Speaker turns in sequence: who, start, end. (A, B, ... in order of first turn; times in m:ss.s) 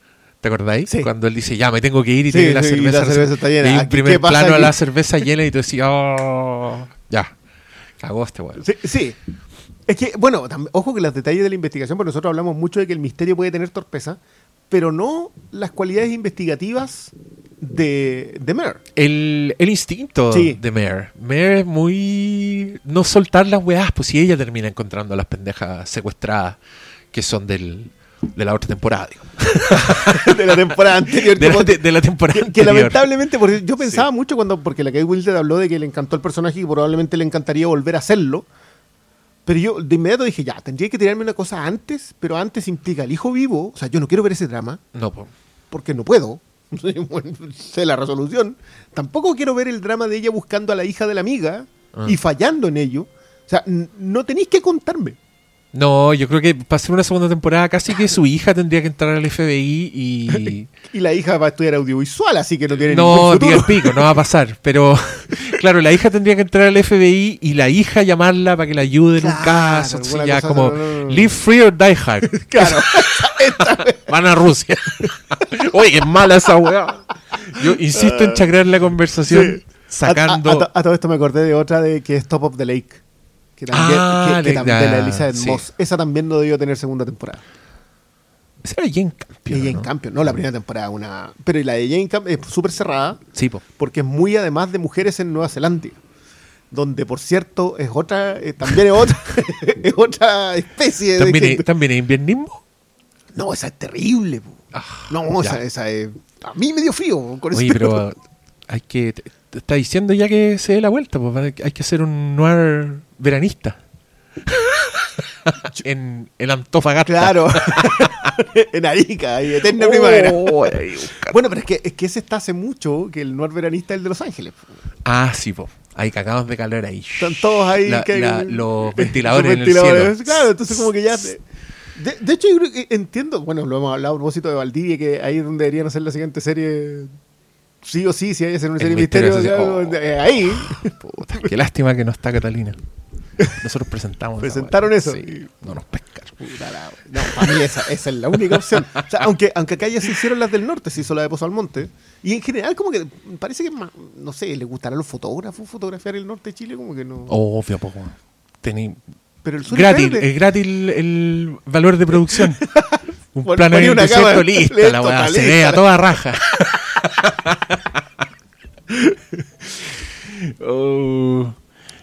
0:00.4-0:07.4 A
0:02.3-0:04.7 B
0:08.0-0:08.7 A
0:08.6-0:09.2 B
0:09.9-0:18.8 B
0:19.0-0:26.6 A
0:20.3-0:20.6 B
0:27.1-0:33.1 A
0:29.9-0:38.5 B
0:33.8-0:34.1 A
0:39.4-0:44.8 B
0:44.9-0:45.3 A
0:45.7-0:55.2 B
0:55.7-1:00.7 A
1:00.4-1:04.0 B
1:02.8-1:13.3 A
1:09.2-1:11.3 B
1:12.3-1:14.2 B
1:14.1-1:20.7 A
1:17.6-1:18.5 B
1:19.3-1:23.0 B
1:23.6-1:27.4 B
1:23.7-1:25.6 A
1:28.6-1:29.9 A
1:29.5-1:33.2 B
1:33.3-1:33.6 A
1:33.8-1:36.0 B
1:36.7-1:41.7 B
1:41.2-1:42.6 A
1:43.3-1:48.0 B
1:44.7-1:45.6 A
1:47.5-1:53.8 A
1:54.5-1:58.3 A
1:57.1-2:04.7 B
1:59.6-2:01.4 A
2:05.1-2:10.9 A
2:07.2-2:11.4 B
2:12.0-2:17.1 B
2:17.8-2:20.9 B
2:18.8-2:22.8 A
2:23.5-2:26.4 A
2:24.4-2:25.5 B
2:26.4-2:37.3 B
2:27.2-2:27.6 A
2:28.7-2:29.1 A
2:37.3-2:39.0 A
2:39.4-2:40.3 B
2:39.7-2:42.6 A
2:42.2-2:45.9 B
2:43.3-2:47.8 A
2:48.9-2:49.4 B
2:50.3-2:51.6 A